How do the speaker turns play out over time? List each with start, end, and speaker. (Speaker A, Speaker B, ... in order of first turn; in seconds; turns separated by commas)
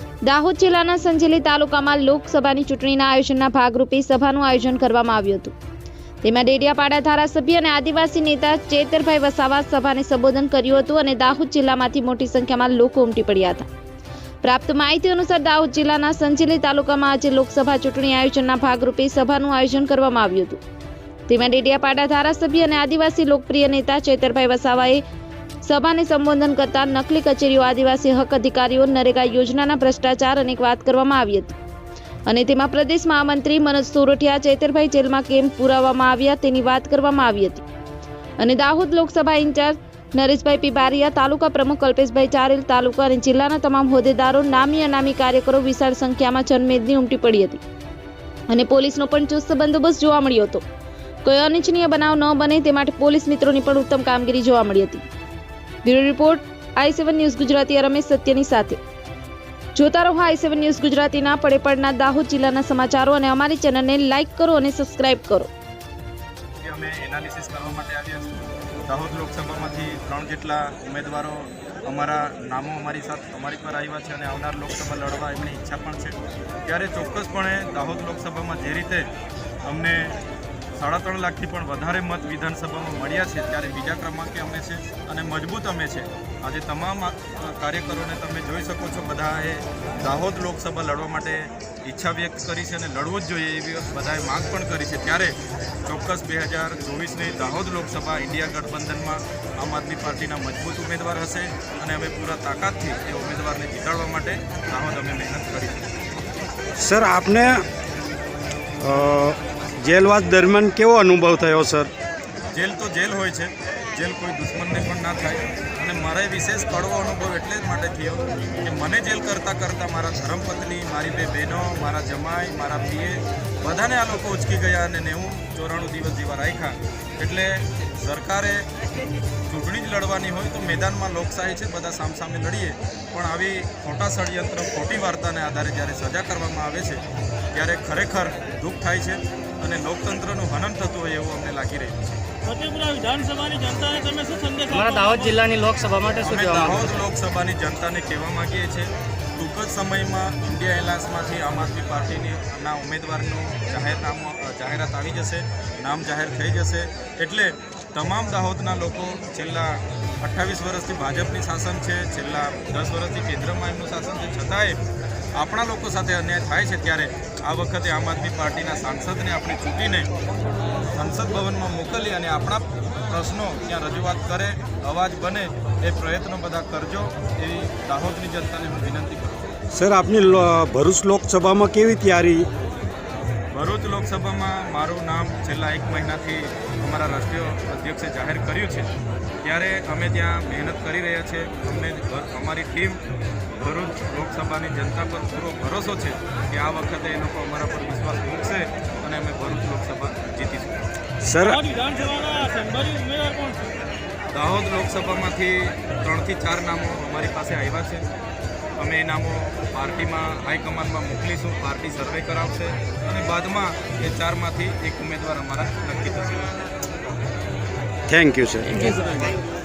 Speaker A: 0.2-5.5, Speaker A: 6.2-13.7, Speaker A: 14.4-20.6, Speaker A: 21.3-25.0, Speaker A: 25.6-31.6, Speaker A: 32.3-37.6, Speaker A: 38.4-47.6, Speaker A: 48.5-50.6, Speaker A: 51.2-55.0, Speaker A: 55.8-58.8, Speaker A: 59.7-65.5, Speaker B: 66.6-76.1, Speaker B: 76.7-79.1, Speaker B: 79.7-80.2, Speaker B: 80.8-105.9, Speaker C: 106.8-107.6, Speaker C: 108.8-111.9, Speaker B: 112.5-128.7, Speaker B: 129.5-137.0, Speaker B: 137.5-142.2, Speaker D: 142.4-145.5, Speaker E: 144.7-147.1, Speaker B: 146.2-164.8, Speaker B: 165.3-170.1, Speaker B: 171.0-179.5, Speaker C: 179.7-182.5, Speaker B: 183.5-188.9, Speaker B: 189.4-193.0, Speaker B: 193.6-200.8, Speaker C: 201.2-201.6, Speaker D: 201.4-203.7, Speaker B: 204.3-208.1, Speaker B: 208.8-216.6, Speaker C: 218.1-219.1